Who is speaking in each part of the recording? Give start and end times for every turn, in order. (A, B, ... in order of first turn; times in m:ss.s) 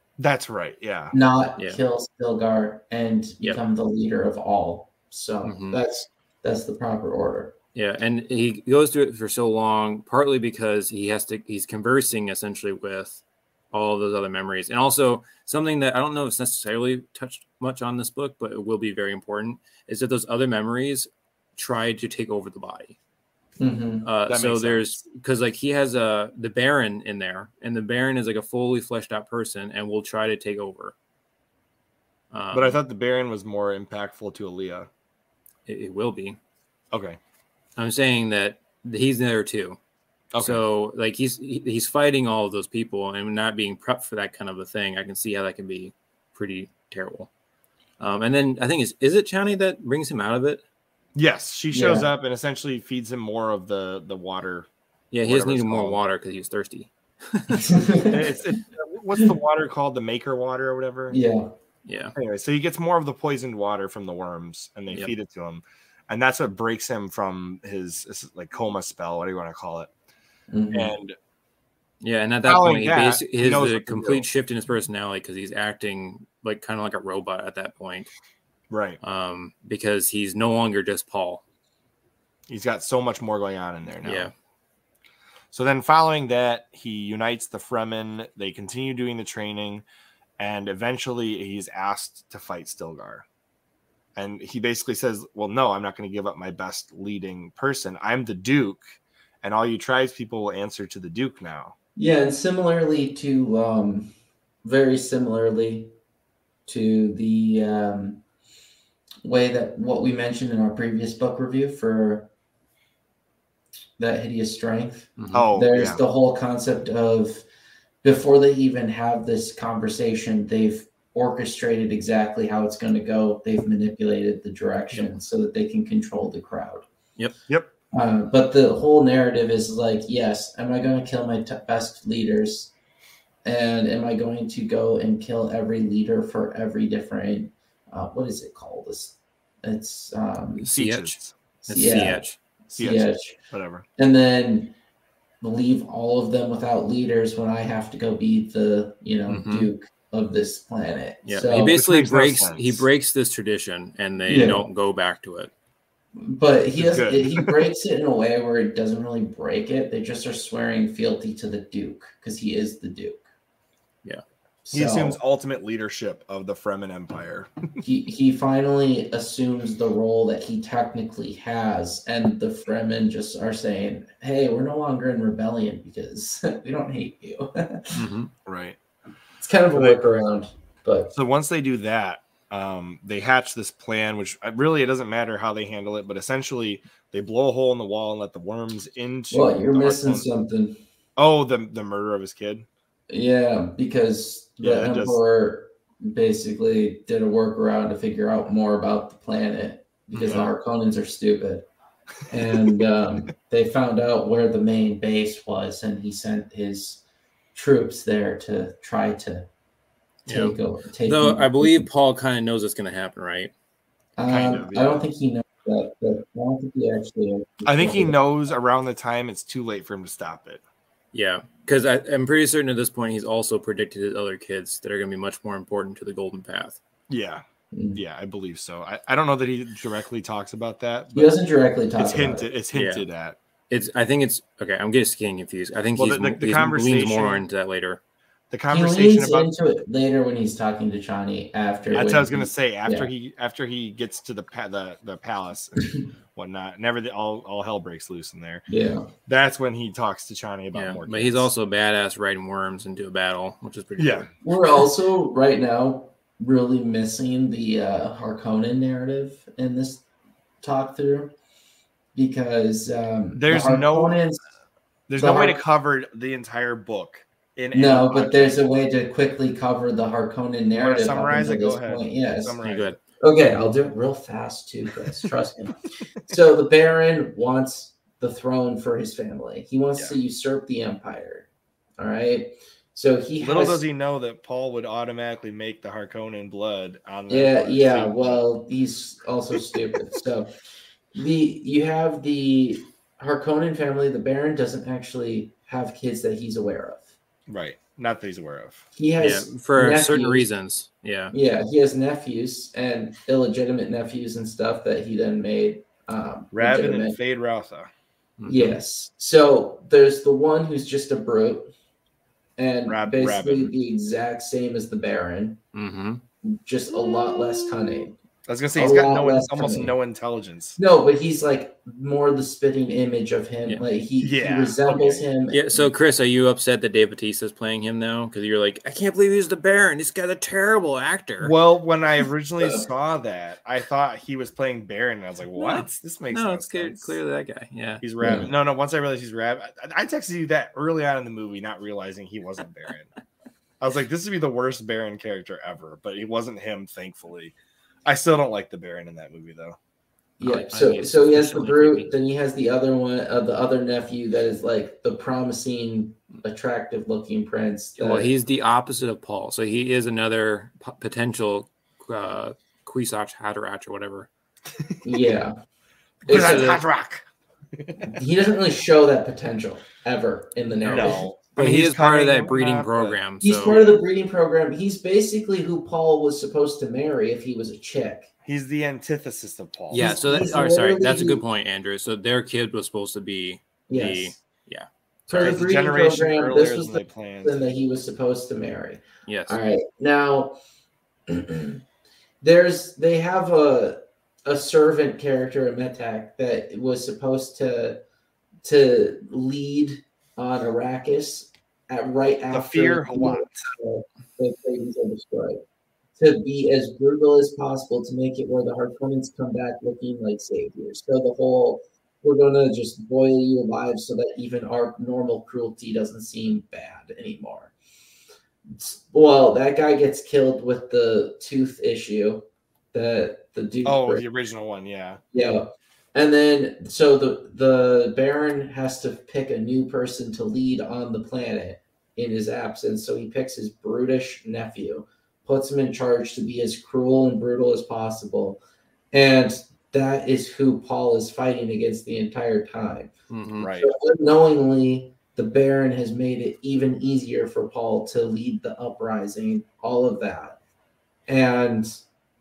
0:00.2-0:01.1 A
0:01.1-0:07.6 B
0:05.4-0:05.8 C
0:07.7-0:23.0 C
0:23.6-0:24.1 B
0:24.0-0:30.9 C
0:24.3-0:25.0 A
0:32.3-0:32.8 C
0:32.5-0:34.9 A
0:35.7-0:36.4 C
0:36.9-0:37.2 A
0:37.8-0:39.8 C
0:40.3-0:40.6 A
0:40.4-0:47.3 C
0:48.0-0:50.6 C
0:51.1-0:54.7 A
0:51.7-0:52.1 B
0:55.1-0:57.8 C
0:55.2-0:56.0 A
0:57.6-0:58.3 B
0:58.1-1:01.2 A
1:01.1-1:01.5 B
1:01.8-1:02.1 C
1:02.2-1:09.9 A
1:10.5-1:10.9 B
1:10.7-1:11.2 A
1:12.0-1:18.1 C
1:12.4-1:14.2 A
1:18.7-1:19.0 A
1:19.0-1:21.4 C
1:22.5-1:24.3 A
1:24.0-1:24.3 C
1:25.5-1:29.8 A
1:30.4-1:33.2 A
1:34.2-1:38.8 A
1:39.4-1:41.7 A
1:42.0-1:44.1 B
1:44.6-1:45.9 B
1:46.6-1:48.2 B
1:49.2-1:52.3 B
1:54.0-1:57.4 B
1:55.2-1:55.5 C
1:55.3-1:56.0 A
1:58.0-2:06.8 B
2:07.9-2:12.7 B
2:13.4-2:20.7 B
2:20.6-2:21.3 A
2:20.7-2:22.4 C
2:21.6-2:23.4 B
2:22.8-2:23.8 A
2:24.0-2:24.7 B
2:25.4-2:31.8 B
2:29.3-2:29.7 C
2:31.2-2:35.5 C
2:31.5-2:32.8 A
2:34.3-2:34.6 B
2:36.2-2:43.2 B
2:36.8-2:37.6 A
2:44.6-2:45.2 B
2:44.7-2:47.6 A
2:47.8-2:58.0 B
2:57.9-2:58.3 C
2:58.4-2:58.8 A
2:59.4-3:01.1 B
2:59.7-3:00.0 A
3:01.1-3:10.3 A
3:09.3-3:10.8 B
3:11.2-3:12.7 A
3:13.1-3:21.7 B
3:14.6-3:15.2 A
3:20.1-3:20.5 A
3:22.3-3:27.0 B
3:27.5-3:29.5 B
3:30.2-3:31.9 B
3:30.3-3:33.5 C
3:34.2-3:38.2 B
3:34.2-3:35.1 A
3:37.6-3:40.6 A
3:41.1-3:46.8 C
3:47.1-3:47.4 A
3:47.7-3:48.0 B
3:47.9-3:51.4 A
3:51.1-3:52.5 B
3:52.0-3:53.4 A
3:52.7-3:53.0 C
3:53.7-3:58.0 C
3:56.0-3:57.4 A
3:58.5-3:59.5 A
3:58.7-4:03.1 B
4:01.9-4:08.6 A
4:08.7-4:09.1 B
4:09.3-4:11.5 A
4:10.7-4:14.3 C
4:14.0-4:14.3 A
4:14.4-4:20.0 B
4:20.6-4:21.3 B
4:22.1-4:24.4 B
4:23.4-4:24.2 A
4:25.1-4:28.8 A
4:25.2-4:25.6 B
4:27.7-4:32.6 B
4:30.7-4:33.0 A
4:32.6-4:33.0 C
4:33.2-4:43.8 B
4:43.4-4:48.4 A
4:47.3-4:50.5 B
4:51.1-4:57.1 B
4:57.5-4:58.8 A
4:59.0-5:00.5 B
4:59.2-5:01.3 C
5:01.3-5:07.2 B
5:06.5-5:07.9 A
5:08.4-5:08.8 C
5:08.5-5:11.7 B
5:12.6-5:15.6 B
5:12.9-5:13.7 A
5:15.7-5:16.2 C
5:16.4-5:18.2 B
5:18.5-5:20.8 A
5:18.8-5:19.9 B
5:20.8-5:25.9 B
5:24.2-5:25.3 A
5:25.5-5:31.5 C
5:31.4-5:37.2 A
5:35.6-5:38.4 C
5:38.0-5:43.1 A
5:38.2-5:38.5 B
5:43.8-5:47.5 A
5:48.0-5:49.8 A
5:50.4-5:58.3 B
5:50.4-5:52.1 C
5:58.0-6:04.3 C
6:04.7-6:05.2 A
6:05.0-6:05.5 B
6:06.2-6:06.8 C
6:06.3-6:06.8 B
6:06.3-6:08.1 A
6:08.1-6:11.2 B
6:10.8-6:13.8 C
6:10.9-6:14.0 A
6:13.4-6:18.3 B
6:18.4-6:20.2 A
6:19.9-6:25.6 C
6:20.0-6:21.4 B
6:23.9-6:24.3 B
6:25.3-6:30.6 B
6:25.3-6:27.7 A
6:29.2-6:29.6 C
6:31.3-6:31.8 B
6:32.4-6:38.0 B
6:38.6-6:45.6 B
6:42.5-6:43.6 A
6:46.2-6:57.7 B
6:58.7-7:04.2 B
7:03.8-7:05.2 A
7:05.3-7:18.6 B
7:19.1-7:23.1 B
7:23.3-7:23.7 C
7:23.6-7:23.9 A
7:23.6-7:30.6 B
7:31.3-7:31.9 B